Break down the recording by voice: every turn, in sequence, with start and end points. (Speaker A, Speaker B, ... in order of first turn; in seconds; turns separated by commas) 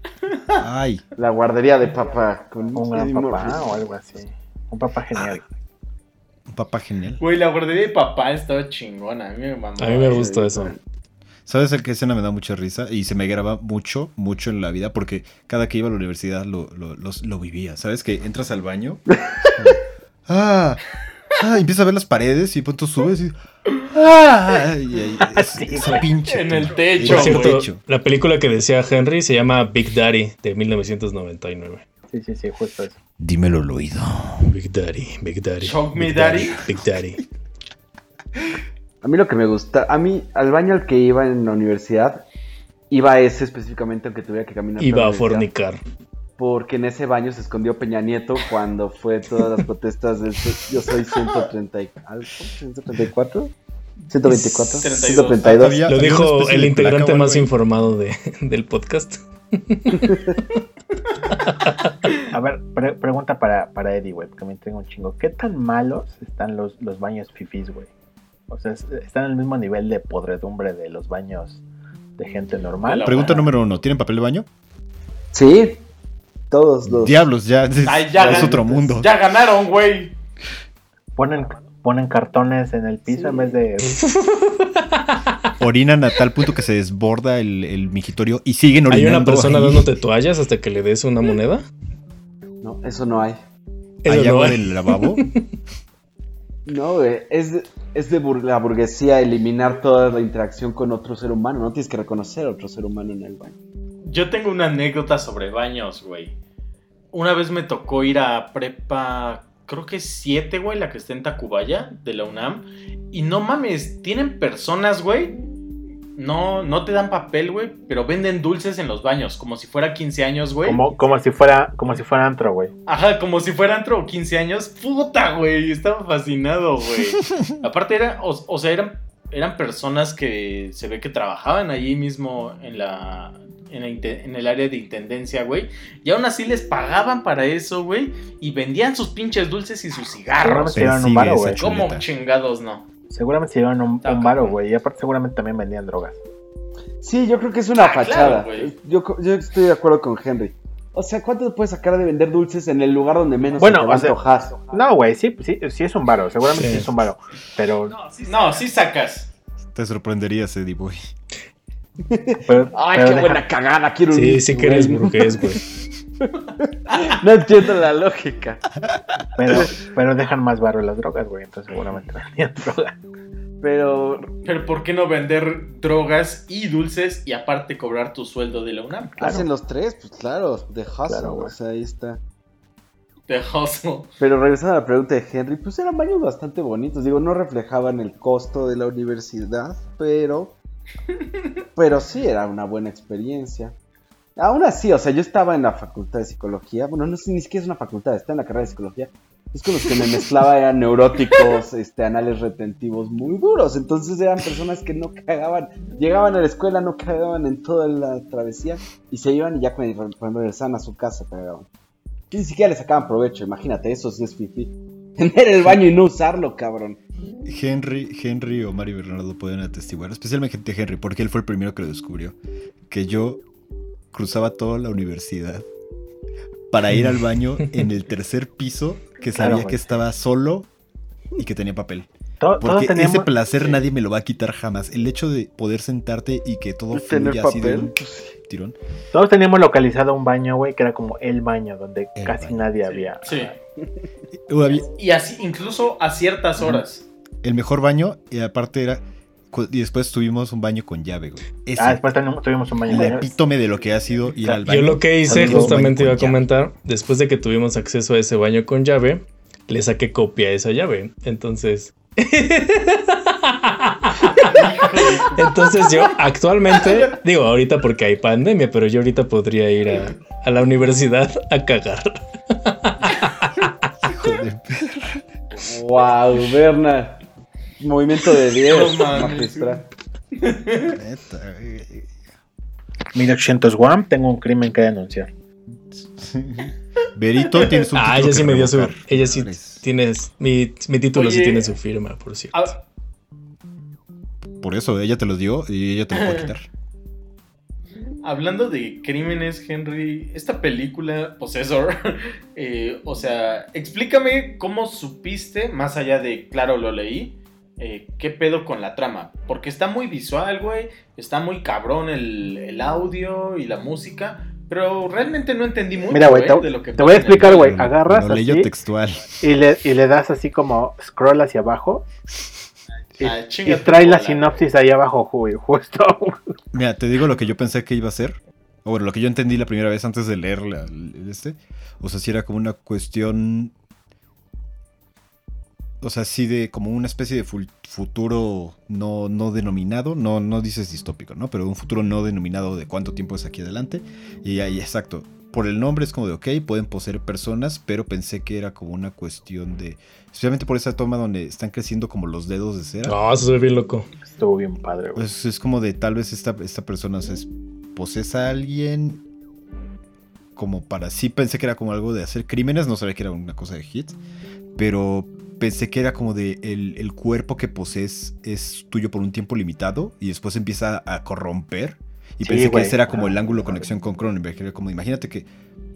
Speaker A: 0.3-0.6, Speaker B: 0.6-1.0, Speaker C: 1.2-3.7, Speaker D: 2.8-5.4, Speaker B: 6.5-7.2, Speaker A: 7.2-10.3, Speaker E: 9.8-10.7, Speaker C: 10.1-10.8, Speaker B: 11.5-20.8, Speaker C: 19.1-19.6, Speaker B: 21.4-23.4, Speaker B: 23.9-27.8, Speaker D: 25.3-26.1, Speaker A: 26.3-27.6, Speaker E: 27.0-31.8, Speaker D: 32.1-33.0, Speaker B: 33.2-34.5, Speaker E: 34.4-37.2, Speaker A: 35.6-36.6, Speaker C: 39.0-42.2, Speaker C: 42.9-45.5, Speaker E: 44.8-45.8, Speaker C: 46.4-53.5, Speaker C: 54.1-55.9, Speaker E: 54.2-54.9, Speaker A: 54.8-55.7, Speaker B: 55.4-57.5, Speaker E: 55.9-60.4, Speaker C: 60.0-60.3, Speaker E: 61.5-61.8, Speaker D: 62.3-67.9, Speaker D: 68.5-71.6, Speaker D: 72.2-73.5, Speaker A: 72.8-73.4, Speaker B: 73.0-74.5, Speaker C: 75.3-75.8, Speaker C: 76.5-77.2, Speaker B: 76.8-79.1, Speaker A: 77.8-80.1, Speaker C: 78.3-78.6, Speaker D: 81.2-84.0, Speaker C: 83.1-83.5, Speaker E: 83.8-85.5, Speaker B: 85.6-89.9, Speaker E: 88.9-91.6, Speaker C: 92.6-93.4, Speaker E: 94.0-95.4, Speaker B: 94.0-95.3, Speaker C: 96.7-103.6, Speaker A: 104.0-106.3, Speaker A: 107.1-115.4, Speaker A: 116.2-120.9, Speaker D: 120.6-122.7, Speaker A: 122.9-140.9, Speaker D: 140.4-141.6, Speaker B: 140.7-142.1, Speaker A: 141.6-142.8, Speaker D: 143.1-146.2, Speaker A: 144.0-144.6, Speaker C: 147.0-154.7, Speaker A: 147.8-148.7, Speaker D: 153.6-158.0, Speaker E: 156.5-156.9, Speaker A: 158.1-159.3, Speaker B: 159.7-161.0, Speaker C: 162.0-165.6, Speaker D: 162.5-163.4, Speaker E: 164.1-165.6, Speaker C: 166.2-168.6, Speaker A: 166.9-167.1, Speaker D: 169.4-172.9, Speaker C: 173.6-174.4, Speaker A: 174.4-179.2, Speaker C: 179.2-182.2, Speaker D: 179.2-179.5, Speaker D: 181.1-181.5, Speaker A: 183.3-184.1, Speaker C: 184.2-190.6, Speaker C: 191.8-193.8, Speaker C: 194.4-211.7, Speaker C: 212.3-217.0, Speaker B: 217.5-222.4, Speaker B: 222.9-223.4, Speaker B: 224.1-225.7, Speaker B: 226.7-230.7, Speaker D: 229.4-229.9, Speaker B: 231.4-232.1, Speaker D: 232.4-233.3, Speaker B: 232.6-238.8, Speaker A: 233.6-233.9, Speaker C: 236.9-238.3, Speaker D: 239.1-243.6, Speaker B: 242.2-242.7, Speaker A: 242.8-243.6, Speaker B: 244.4-244.9, Speaker A: 244.8-247.1, Speaker B: 247.4-252.0, Speaker D: 251.8-253.3, Speaker B: 252.9-256.4, Speaker D: 254.4-254.7, Speaker E: 254.7-264.6, Speaker D: 255.3-255.8, Speaker A: 264.3-266.1, Speaker E: 265.3-273.5, Speaker B: 274.0-275.3, Speaker C: 275.6-277.2, Speaker C: 277.8-279.9, Speaker A: 278.6-279.8, Speaker A: 280.4-281.0, Speaker B: 280.9-282.1, Speaker D: 283.1-285.3, Speaker B: 285.9-289.9, Speaker E: 287.9-292.7, Speaker A: 291.1-291.8, Speaker A: 292.5-292.8, Speaker B: 294.6-296.7, Speaker A: 296.1-296.5, Speaker A: 298.2-317.8, Speaker D: 316.1-318.7, Speaker B: 317.4-319.4, Speaker D: 319.4-322.1, Speaker D: 323.2-326.5, Speaker A: 323.2-324.6, Speaker B: 326.7-333.7, Speaker B: 336.0-353.2, Speaker E: 353.1-354.1, Speaker D: 354.2-355.3, Speaker B: 355.1-359.2, Speaker B: 360.6-364.2, Speaker B: 364.8-375.5, Speaker D: 372.4-373.9